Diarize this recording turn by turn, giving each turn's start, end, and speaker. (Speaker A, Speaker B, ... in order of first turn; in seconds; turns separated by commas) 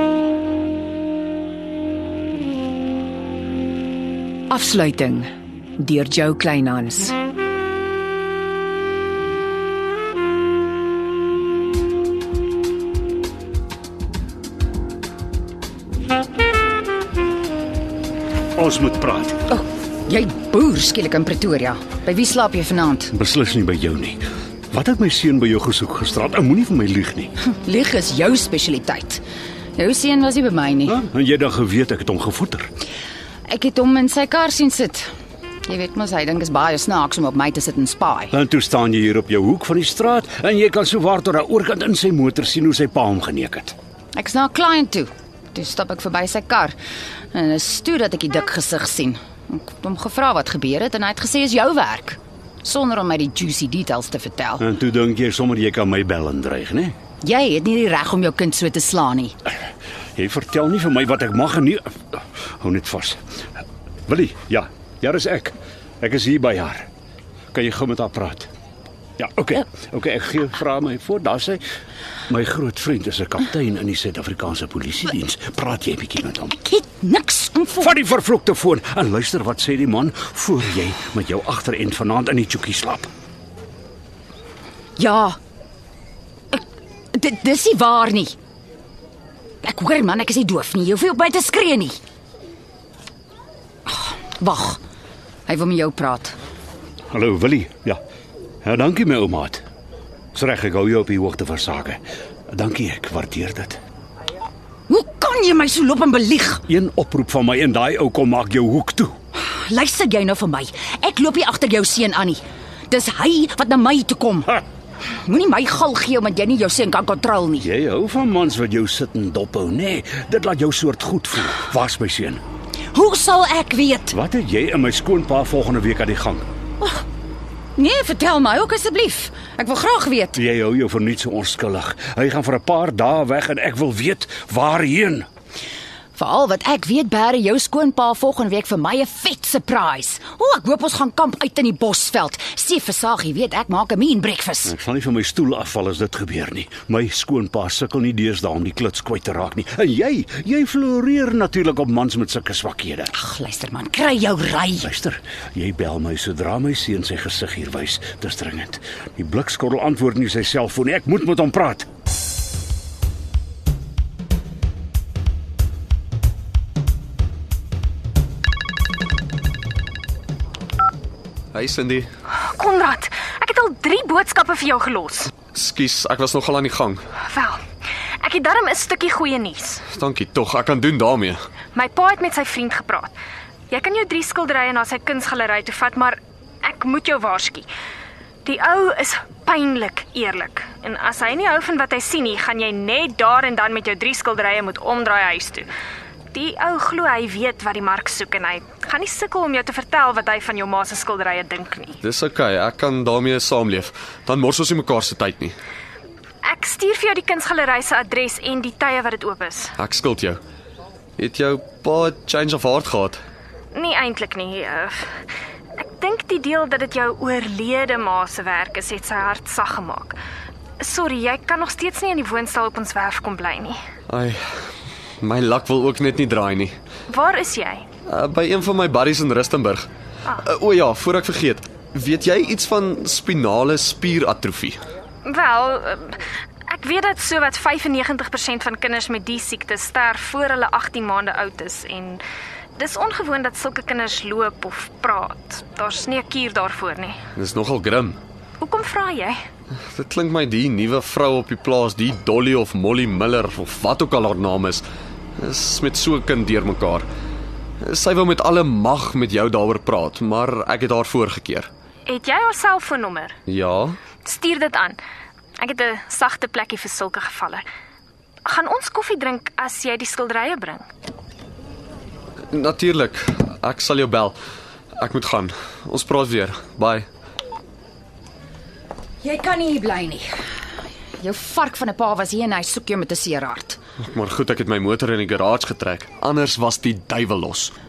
Speaker A: 4.5-5.2, Speaker A: 5.8-7.1, Speaker B: 18.6-19.4, Speaker C: 19.5-23.1, Speaker B: 23.1-27.3, Speaker C: 27.5-29.2, Speaker C: 29.8-31.0, Speaker B: 30.9-32.7, Speaker C: 33.5-35.1, Speaker C: 35.7-38.3, Speaker B: 38.3-43.7, Speaker C: 44.1-46.8, Speaker C: 47.3-54.6, Speaker B: 54.6-56.9, Speaker C: 57.2-59.3, Speaker B: 60.1-63.2, Speaker B: 64.1-66.9, Speaker B: 67.5-68.5, Speaker B: 69.2-71.6, Speaker B: 72.3-76.5, Speaker C: 76.6-77.9, Speaker B: 77.8-83.1, Speaker C: 85.0-85.4, Speaker C: 86.5-88.3, Speaker C: 89.6-92.0, Speaker C: 93.9-94.8, Speaker C: 95.5-96.3, Speaker B: 97.1-98.0, Speaker B: 98.6-99.6, Speaker B: 100.3-103.8, Speaker C: 104.9-106.6, Speaker B: 106.7-109.1, Speaker C: 109.4-114.6, Speaker C: 115.1-117.7, Speaker B: 117.6-122.4, Speaker C: 122.9-124.2, Speaker B: 124.1-126.5, Speaker C: 127.8-130.4, Speaker B: 130.3-135.2, Speaker C: 136.2-144.7, Speaker B: 144.7-153.1, Speaker C: 153.1-154.9, Speaker B: 154.8-161.9, Speaker D: 171.5-172.1, Speaker E: 172.3-175.3, Speaker D: 175.5-177.0, Speaker E: 177.2-177.6, Speaker E: 178.2-179.8, Speaker D: 179.9-181.4, Speaker E: 181.7-183.1, Speaker E: 183.7-187.7, Speaker E: 188.4-195.7, Speaker E: 196.3-202.0, Speaker D: 202.0-205.6, Speaker E: 206.4-209.7, Speaker D: 209.8-210.4, Speaker D: 211.2-213.2, Speaker E: 213.7-215.1, Speaker E: 215.8-220.2, Speaker E: 220.8-223.8, Speaker D: 224.1-224.6, Speaker D: 225.2-226.8, Speaker E: 227.1-227.9, Speaker D: 228.1-229.9, Speaker D: 230.4-234.8, Speaker E: 235.2-242.2, Speaker E: 242.8-247.2, Speaker D: 247.3-248.2, Speaker E: 248.6-249.4, Speaker D: 249.9-254.8, Speaker D: 255.4-257.1, Speaker D: 257.8-261.7, Speaker E: 262.1-263.3, Speaker D: 263.5-264.0, Speaker E: 264.2-265.0, Speaker E: 265.6-267.6, Speaker E: 268.4-270.8, Speaker D: 272.5-274.4, Speaker D: 275.0-277.1, Speaker C: 279.2-280.3, Speaker C: 281.2-283.8, Speaker D: 284.0-287.7